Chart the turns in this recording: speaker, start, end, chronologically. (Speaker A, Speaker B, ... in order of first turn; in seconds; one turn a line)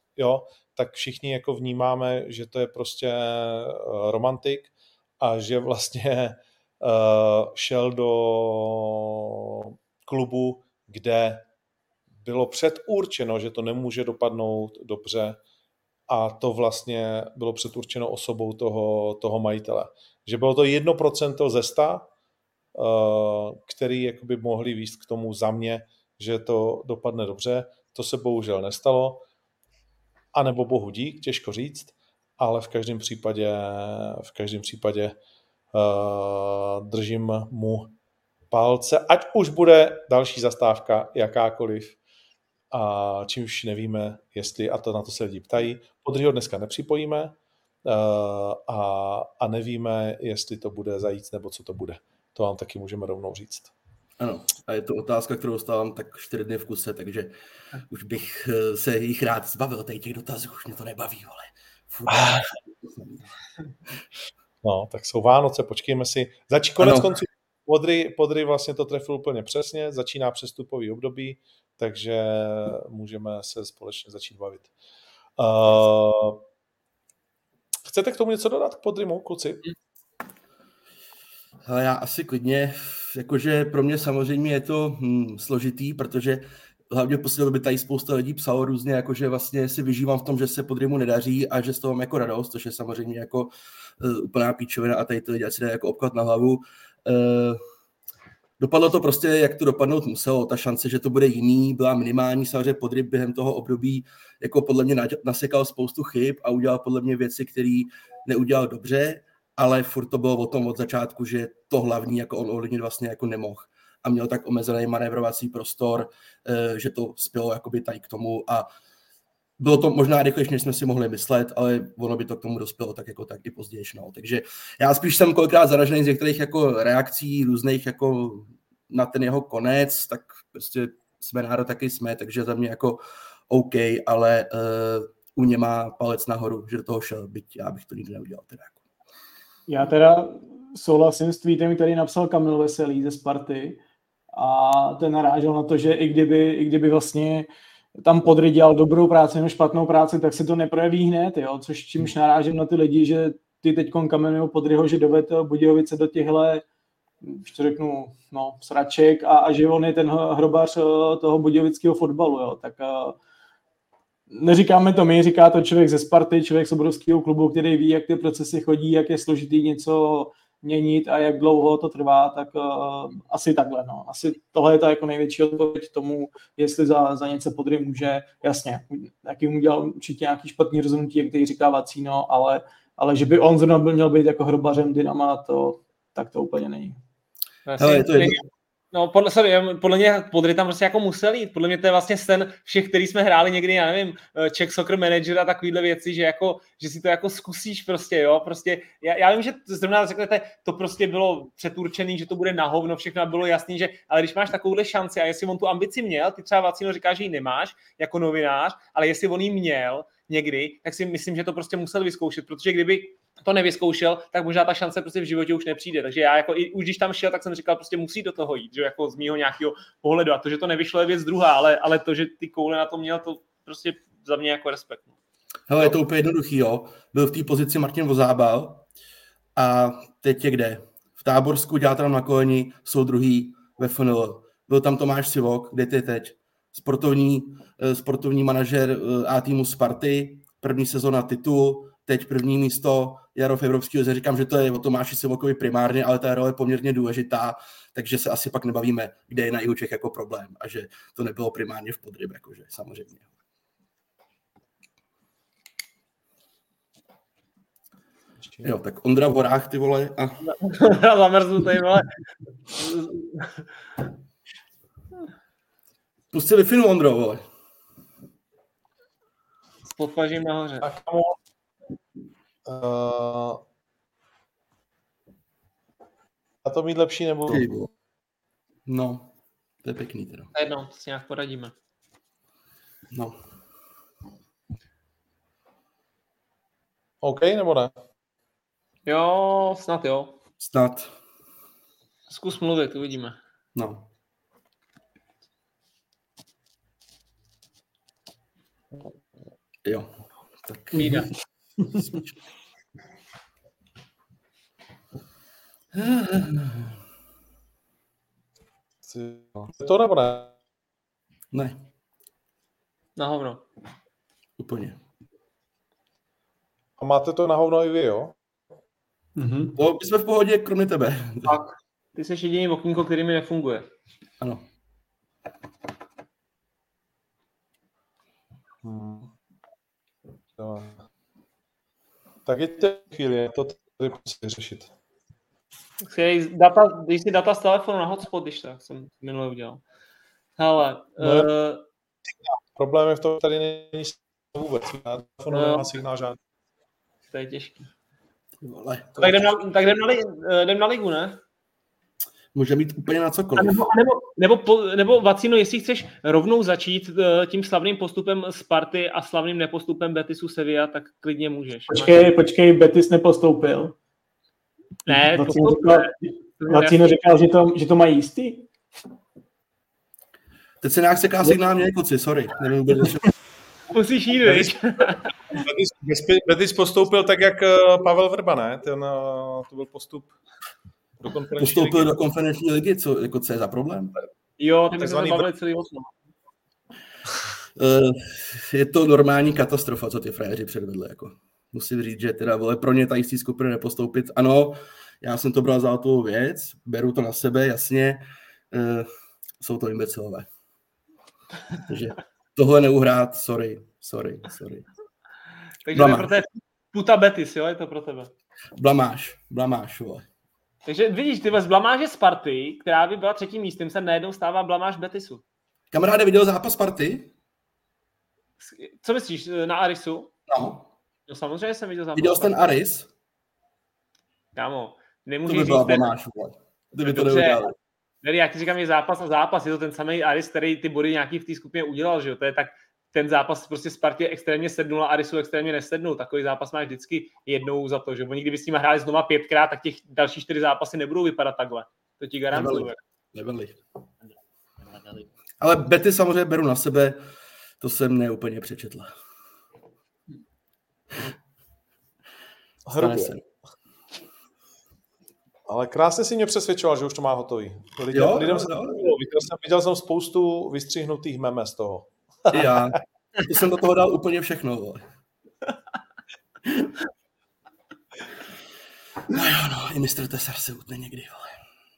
Speaker A: 0.2-11.4
Speaker A: 12.2-15.4
Speaker A: 16.1-22.1
Speaker A: 22.7-29.2
Speaker A: 30.3-35.2
Speaker A: 35.7-37.9
Speaker A: 38.5-42.0
Speaker A: 42.7-47.3
Speaker A: 47.9-53.7
Speaker B: 54.2-57.3
Speaker B: 57.9-63.3
Speaker A: 62.1-62.4
Speaker A: 64.6-74.7
Speaker B: 66.8-67.1
Speaker A: 75.4-76.4
Speaker A: 77.8-79.6
Speaker B: 81.6-97.6
Speaker B: 98.6-118.7
Speaker B: 119.6-138.8
Speaker C: 139.7-143.8
Speaker C: 144.3-147.5
Speaker C: 148.0-156.6
Speaker C: 157.2-163.2
Speaker C: 164.3-187.0
Speaker D: 187.7-225.1
Speaker B: 187.8-188.4
Speaker B: 225.7-228.9
Speaker B: 229.6-253.3
Speaker B: 258.6-260.4
Speaker D: 260.4-262.1
Speaker D: 262.7-263.6
Speaker B: 266.3-267.4
Speaker D: 269.9-270.9
Speaker A: 270.8-271.4
Speaker A: 272.6-273.6
Speaker A: 276.6-277.6
Speaker B: 277.5-277.9
Speaker B: 278.9-279.3
Speaker B: 279.8-280.5
Speaker D: 280.5-281.7
Speaker B: 283.1-283.4
Speaker A: 287.2-287.9
Speaker D: 289.1-290.4
Speaker B: 290.6-291.1
Speaker D: 292.3-293.4
Speaker B: 293.7-294.1
Speaker B: 299.8-301.3
Speaker D: 300.9-301.3
Speaker B: 301.9-302.3
Speaker B: 305.9-307.0
Speaker A: 309.1-310.5
Speaker B: 311.5-311.8
Speaker D: 313.2-313.6
Speaker B: 314.6-315.0
Speaker A: 317.0-318.3
Speaker C: 319.4-319.7
Speaker B: 319.7-321.6
Speaker D: 321.5-323.9
Speaker B: 324.4-324.6
Speaker A: 328.8-329.3
Speaker A: 330.6-331.1
Speaker A: 332.4-334.9
Speaker D: 336.0-339.8
Speaker D: 340.6-341.8
Speaker A: 341.2-341.5
Speaker A: 342.7-346.4
Speaker D: 345.5-345.9
Speaker D: 347.3-347.9
Speaker B: 348.6-349.6
Speaker D: 349.2-351.4
Speaker B: 352.5-353.8
Speaker D: 353.6-362.3
Speaker C: 361.9-363.9
Speaker D: 365.1-367.4
Speaker C: 365.1-368.7
Speaker B: 370.8-373.3
Speaker D: 373.9-375.3
Speaker B: 374.4-374.7
Speaker A: 375.6-380.4
Speaker A: 381.2-382.1
Speaker B: 381.6-384.1
Speaker D: 384.6-386.1
Speaker A: 385.0-385.5
Speaker B: 387.8-400.5
Speaker B: 401.8-404.9
Speaker D: 405.8-408.3
Speaker B: 405.9-406.3
Speaker B: 408.8-410.2
Speaker D: 410.8-415.4
Speaker B: 415.9-417.3
Speaker D: 418.6-420.3
Speaker B: 420.5-420.9
Speaker D: 421.3-422.5
Speaker B: 422.1-423.1
Speaker D: 424.6-426.1
Speaker B: 425.5-427.7
Speaker D: 427.0-427.7
Speaker D: 428.2-443.0
Speaker B: 442.5-443.8
Speaker B: 445.6-447.2
Speaker B: 447.8-449.1
Speaker A: 452.9-453.4
Speaker B: 452.9-453.4
Speaker A: 455.7-463.0
Speaker B: 458.1-459.1
Speaker B: 462.5-465.0
Speaker B: 466.6-466.9
Speaker B: 469.3-471.5